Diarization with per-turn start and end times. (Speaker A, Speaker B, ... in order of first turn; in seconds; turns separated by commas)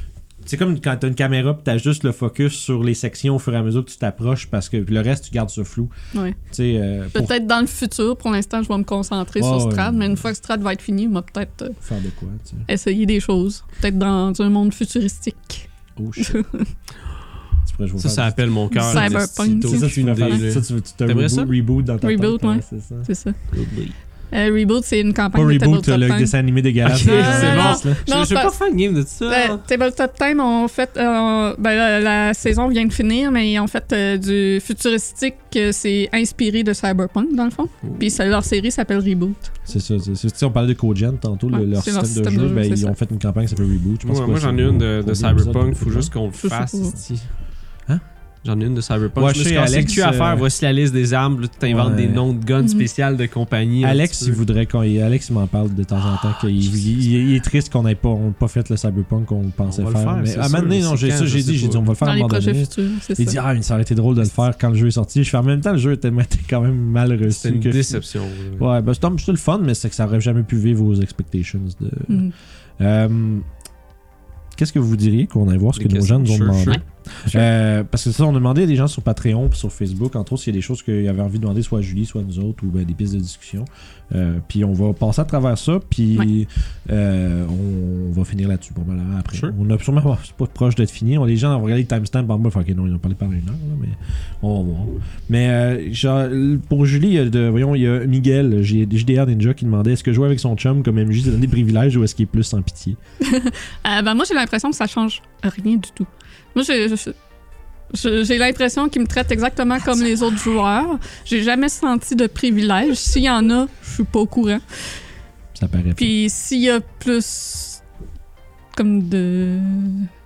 Speaker A: 0.4-5.9, Speaker A: 6.5-7.3, Speaker B: 7.1-11.8, Speaker A: 9.4-10.2, Speaker A: 11.8-12.7, Speaker B: 12.7-16.7, Speaker A: 15.9-16.4, Speaker A: 17.6-23.1, Speaker C: 18.0-21.5, Speaker B: 18.7-20.4, Speaker B: 22.0-23.4, Speaker C: 23.5-23.9, Speaker B: 24.3-26.3, Speaker A: 25.3-28.0, Speaker C: 26.8-29.6, Speaker B: 26.9-28.6, Speaker B: 29.3-39.5, Speaker C: 37.8-38.1, Speaker A: 39.7-46.1, Speaker B: 41.5-42.9, Speaker C: 44.0-47.3, Speaker B: 46.4-47.0, Speaker C: 48.4-54.4, Speaker A: 49.1-50.5, Speaker A: 51.6-52.2, Speaker B: 52.6-52.9, Speaker A: 53.8-68.1, Speaker C: 59.6-61.9, Speaker B: 62.0-63.4, Speaker C: 67.3-68.7, Speaker A: 68.6-72.3, Speaker B: 72.1-72.3, Speaker A: 72.8-73.5, Speaker A: 74.5-103.0, Speaker C: 75.8-76.8, Speaker B: 103.2-107.2, Speaker B: 107.9-114.6, Speaker A: 115.5-116.1, Speaker B: 116.0-117.8, Speaker B: 118.7-120.1